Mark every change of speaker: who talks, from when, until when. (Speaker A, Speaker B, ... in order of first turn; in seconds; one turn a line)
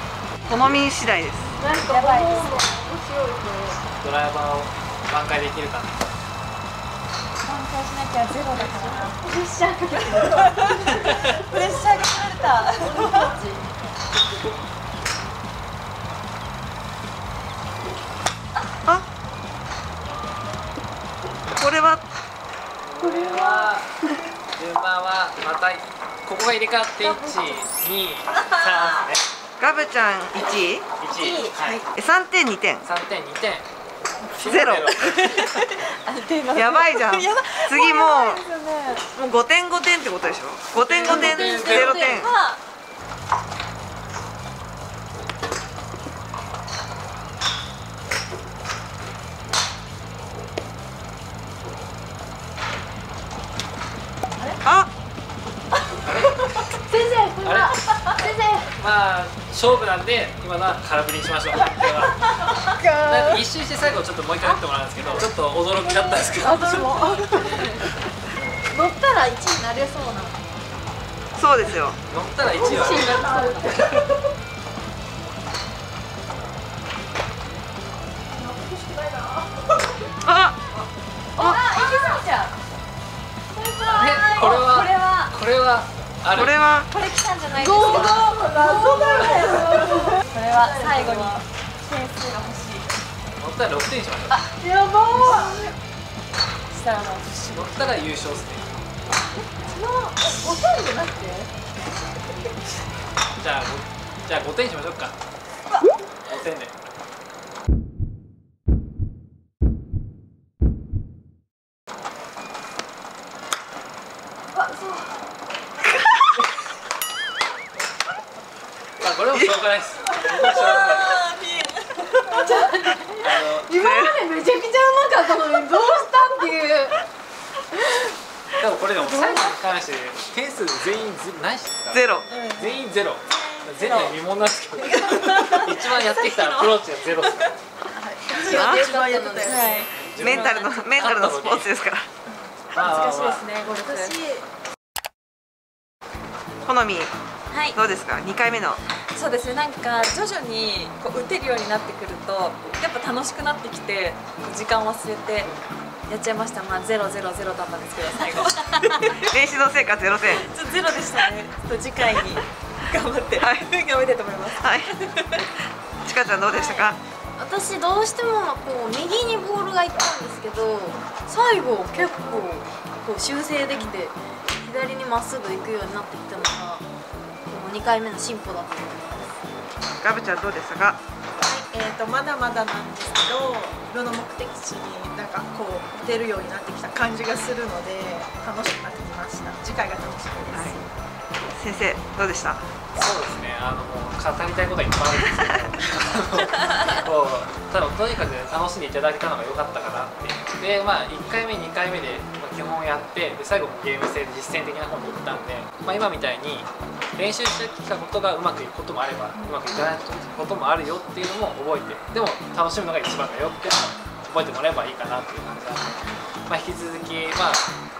Speaker A: 0.5-1.5
Speaker B: 1.4-3.8
Speaker C: 1.6-2.7
Speaker D: 1.9-2.5
Speaker E: 4.0-5.9
Speaker D: 7.4-9.2
Speaker B: 8.5-9.4
Speaker C: 9.2-11.1
Speaker B: 9.9-11.5
Speaker D: 10.2-13.3
Speaker B: 12.7-13.8
Speaker E: 14.2-14.6
Speaker A: 21.5-22.0
Speaker E: 22.8-23.9
Speaker E: 24.6-29.2
Speaker D: 27.0-27.6
Speaker A: 29.6-30.9
Speaker E: 31.0-31.8
Speaker D: 31.1-31.4
Speaker B: 31.5-31.8
Speaker A: 31.9-32.9
Speaker E: 32.8-33.6
Speaker E: 34.2-35.5
Speaker A: 34.4-35.0
Speaker D: 35.0-39.0
Speaker A: 36.5-38.4
Speaker A: 39.1-42.3
Speaker E: 40.7-42.2
Speaker D: 41.0-42.6
Speaker A: 54.6-54.9
Speaker E: 56.0-56.7
Speaker C: 56.9-57.6
Speaker E: 57.4-57.9
Speaker D: 57.7-58.2
Speaker C: 58.3-58.7
Speaker E: 58.7-67.2
Speaker B: 62.8-63.4
Speaker C: 66.0-67.4
Speaker D: 67.3-67.9
Speaker C: 68.7-70.3
Speaker A: 71.3-72.0
Speaker E: 72.1-74.1
Speaker B: 72.5-74.0
Speaker C: 72.6-74.0
Speaker D: 73.0-73.7
Speaker B: 78.3-80.1
Speaker A: 80.2-80.6
Speaker D: 81.4-82.5
Speaker B: 81.4-82.2
Speaker D: 83.5-85.3
Speaker E: 83.9-86.6
Speaker A: 86.3-86.9
Speaker D: 86.9-92.8
Speaker B: 87.5-91.3
Speaker C: 87.8-88.1
Speaker C: 88.8-90.2
Speaker E: 93.4-94.5
Speaker B: 94.6-95.7
Speaker D: 95.0-95.7
Speaker D: 96.7-97.7
Speaker E: 97.5-98.7
Speaker E: 103.3-105.1
Speaker E: 106.2-106.7
Speaker C: 114.5-115.0
Speaker E: 119.0-121.2
Speaker D: 120.2-122.6
Speaker C: 122.2-127.0
Speaker E: 123.2-123.7
Speaker A: 123.7-124.2
Speaker E: 128.6-137.5
Speaker A: 131.9-132.3
Speaker B: 132.3-132.7
Speaker D: 133.7-134.1
Speaker D: 134.9-136.8
Speaker B: 137.9-139.9
Speaker D: 138.4-141.2
Speaker A: 138.5-138.9
Speaker C: 139.0-139.8
Speaker E: 139.9-141.7
Speaker A: 140.2-142.1
Speaker E: 142.7-143.4
Speaker D: 142.7-144.2
Speaker B: 143.6-144.4
Speaker A: 146.6-147.1
Speaker D: 147.5-147.8
Speaker A: 147.7-148.8
Speaker D: 149.1-155.5
Speaker D: 156.1-159.2
Speaker A: 159.2-160.4
Speaker D: 160.3-165.4
Speaker A: 163.4-163.7
Speaker A: 164.6-164.9
Speaker A: 166.0-167.0
Speaker C: 167.4-171.0
Speaker D: 171.3-174.1
Speaker C: 174.9-176.8
Speaker C: 177.5-179.3
Speaker A: 180.0-181.0
Speaker B: 181.4-190.8
Speaker A: 190.5-190.8
Speaker A: 191.5-192.6
Speaker E: 192.9-215.9
Speaker E: 216.5-217.6